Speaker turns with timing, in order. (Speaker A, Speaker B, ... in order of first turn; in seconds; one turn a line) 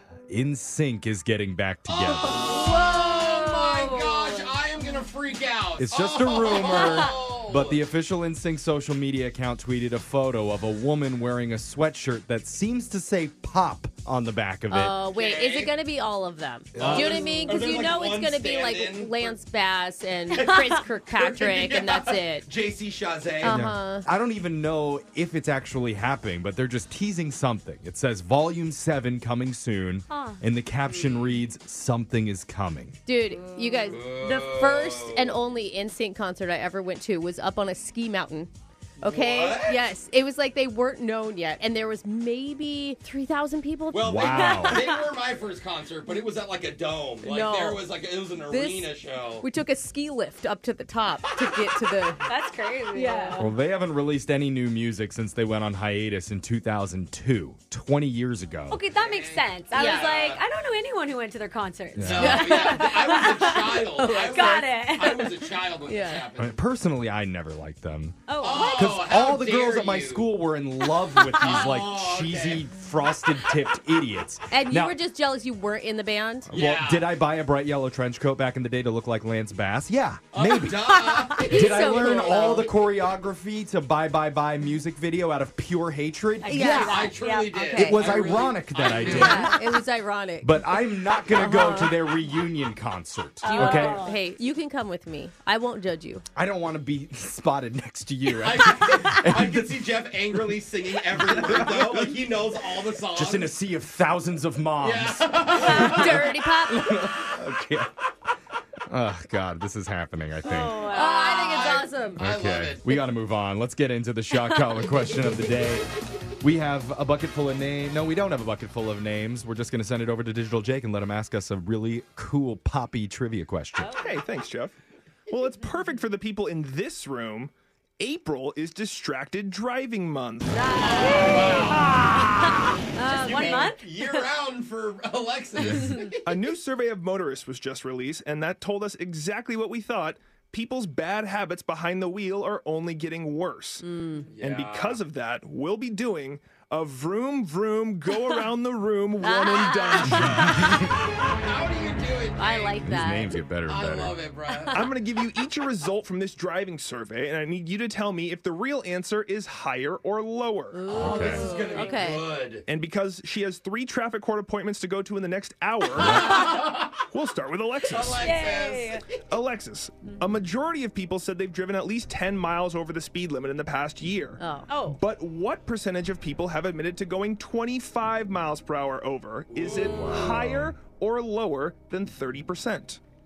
Speaker A: 0.3-2.5
Speaker B: 1.9-7.8
Speaker C: 2.5-4.5
Speaker A: 5.8-15.0
Speaker C: 6.5-7.1
Speaker D: 14.7-22.5
Speaker B: 15.1-15.7
Speaker A: 16.7-17.2
Speaker B: 16.7-19.4
Speaker C: 17.2-17.6
Speaker B: 20.3-23.7
Speaker D: 23.4-24.1
Speaker A: 23.4-33.0
Speaker C: 30.1-30.4
Speaker B: 30.9-31.4
Speaker D: 33.0-44.7
Speaker C: 33.4-33.9
Speaker B: 33.9-35.4
Speaker B: 39.0-39.9
Speaker B: 43.9-49.5
Speaker A: 44.0-44.9
Speaker C: 44.3-45.0
Speaker D: 47.2-47.9
Speaker D: 48.4-52.2
Speaker C: 52.2-53.5
Speaker D: 52.9-53.4
Speaker A: 53.4-58.8
Speaker C: 58.7-65.4
Speaker B: 58.9-60.4
Speaker D: 59.7-60.1
Speaker A: 61.9-62.5
Speaker B: 62.0-66.6
Speaker D: 62.1-64.6
Speaker D: 65.8-66.2
Speaker A: 66.4-68.2
Speaker C: 68.3-68.8
Speaker B: 68.4-70.3
Speaker A: 68.7-75.0
Speaker C: 70.9-71.6
Speaker B: 71.3-72.7
Speaker D: 74.5-76.5
Speaker A: 76.5-87.0
Speaker B: 76.5-77.1
Speaker B: 80.3-82.7
Speaker D: 81.3-82.7
Speaker C: 86.4-88.0
Speaker D: 86.5-88.1
Speaker B: 86.7-89.5
Speaker A: 87.7-89.7
Speaker D: 89.0-92.1
Speaker A: 90.4-94.0
Speaker C: 93.4-94.2
Speaker D: 93.4-96.2
Speaker A: 96.3-99.8
Speaker B: 98.4-103.5
Speaker A: 101.1-102.2
Speaker A: 103.0-107.9
Speaker B: 104.8-106.3
Speaker D: 105.5-107.0
Speaker A: 108.9-110.8
Speaker C: 110.4-111.9
Speaker D: 110.5-112.2
Speaker B: 111.4-113.0
Speaker A: 112.2-115.9
Speaker A: 116.4-124.0
Speaker C: 123.8-124.3
Speaker E: 123.9-124.7
Speaker E: 125.3-131.1
Speaker D: 130.5-131.9
Speaker B: 130.8-136.4
Speaker C: 130.9-134.3
Speaker D: 132.9-133.7
Speaker E: 136.2-143.8
Speaker D: 143.8-144.3
Speaker B: 144.3-145.0
Speaker E: 144.4-150.4
Speaker D: 149.2-150.8
Speaker B: 150.1-152.9
Speaker D: 152.4-153.4
Speaker A: 152.8-154.2
Speaker B: 153.7-154.9
Speaker E: 154.7-160.9
Speaker D: 160.7-162.3
Speaker B: 160.9-162.6
Speaker A: 160.9-161.4
Speaker E: 162.7-168.4
Speaker B: 166.0-167.0
Speaker C: 166.1-166.6
Speaker B: 167.8-169.2
Speaker C: 168.2-169.1
Speaker E: 169.2-183.0
Speaker D: 174.4-174.7
Speaker C: 174.7-175.0
Speaker C: 179.7-180.3
Speaker A: 180.2-180.7